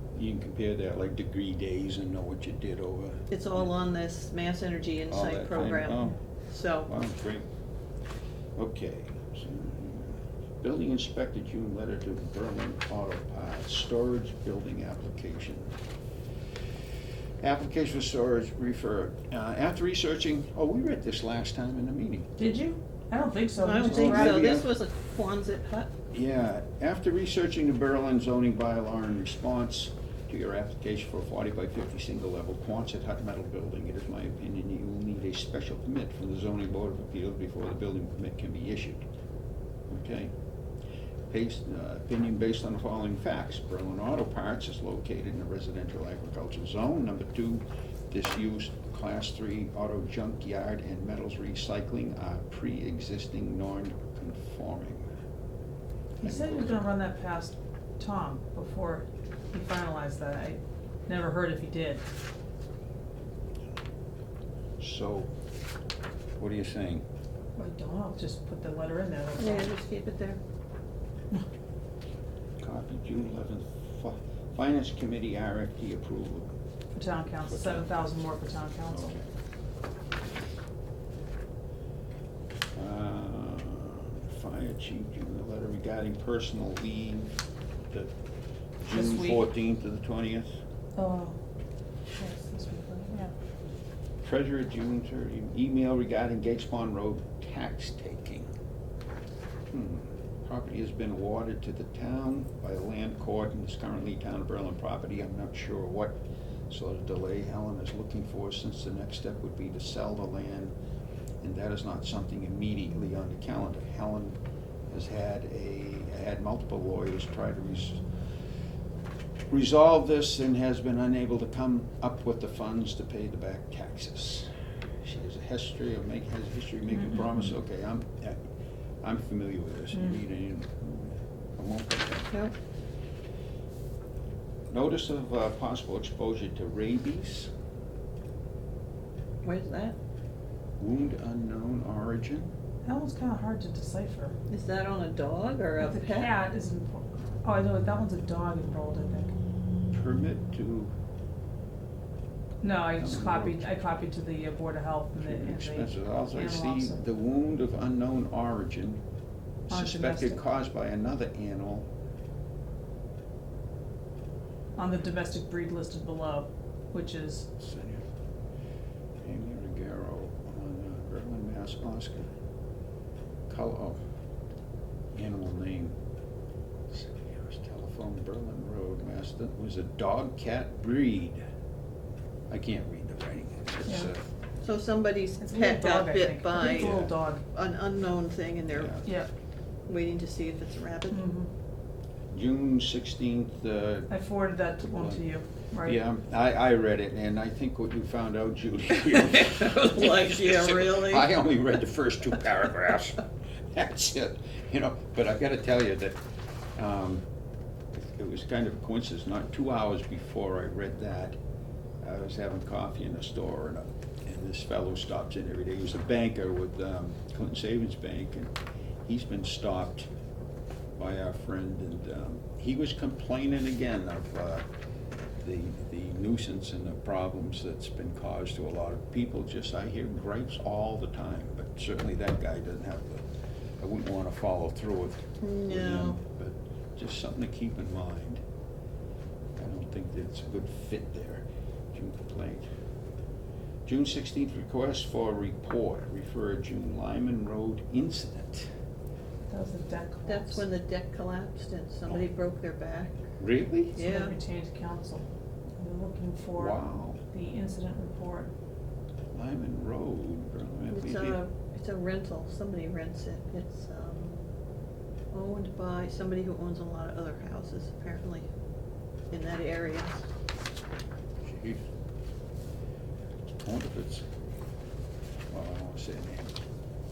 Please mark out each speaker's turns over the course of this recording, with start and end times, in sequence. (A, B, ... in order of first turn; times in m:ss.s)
0:00.1-0:03.7 A
0:03.3-0:06.9 B
0:05.1-0:06.2 A
0:06.9-0:07.4 A
0:08.6-0:15.7 A
0:17.4-0:22.3 A
0:22.4-0:24.4 C
0:23.6-0:25.9 B
0:23.8-0:24.7 A
0:26.1-0:39.0 A
0:39.9-0:40.3 A
0:41.3-0:55.1 A
0:56.2-1:02.0 C
0:56.2-0:56.8 A
1:04.8-1:05.3 A
1:06.4-1:07.0 A
1:07.6-1:09.7 C
1:09.4-1:10.4 B
1:12.6-1:16.5 A
1:16.9-1:19.2 C
1:17.5-1:18.0 A
1:18.9-1:19.2 A
1:22.7-1:27.3 A
1:28.8-1:30.5 A
1:28.9-1:29.4 C
1:31.0-1:31.4 C
1:32.1-1:33.3 C
1:34.2-1:38.5 A
1:39.7-1:46.2 A
1:46.7-1:50.7 A
1:51.4-1:58.0 A
1:59.5-2:04.5 A
2:05.0-2:08.4 A
2:07.0-2:07.3 C
2:09.0-2:12.3 A
2:14.7-2:17.5 A
2:19.4-2:20.0 B
2:20.8-2:22.5 A
2:22.8-2:24.4 C
2:24.5-2:26.3 B
2:25.8-2:29.4 C
2:29.9-2:30.9 A
2:32.6-2:37.0 C
2:33.0-2:33.7 A
2:35.2-2:39.0 A
2:39.7-2:41.9 A
2:39.7-2:40.4 C
2:44.8-2:47.5 C
2:47.6-2:48.0 A
2:49.2-2:52.3 A
2:53.5-2:54.0 A
2:55.1-2:55.9 A
2:56.9-3:01.4 A
3:02.5-3:04.2 A
3:04.6-3:07.0 B
3:05.4-3:07.4 C
3:06.6-3:07.1 A
3:07.5-3:09.0 B
3:08.7-3:09.0 A
3:09.9-3:11.2 B
3:11.1-3:11.5 C
3:12.3-3:14.1 A
3:14.1-3:16.0 C
3:14.8-3:15.2 A
3:15.8-3:26.2 A
3:19.3-3:21.3 B
3:26.8-3:27.2 A
3:27.9-3:31.4 A
3:32.0-3:38.5 A
3:39.0-3:40.1 A
3:41.0-3:44.6 A
3:45.4-3:53.2 A
3:53.8-3:58.4 A
3:55.4-3:56.2 B
3:59.6-4:02.6 A
4:03.8-4:08.7 A
4:09.5-4:10.6 C
4:10.3-4:13.2 B
4:13.4-4:14.0 A
4:13.9-4:14.3 B
4:14.0-4:15.3 C
4:15.8-4:18.5 C
4:16.6-4:17.2 A
4:19.3-4:21.4 A
4:20.9-4:24.4 B
4:25.3-4:28.5 B
4:29.3-4:30.2 B
4:31.4-4:31.8 A
4:33.5-4:34.2 A
4:35.5-4:36.5 A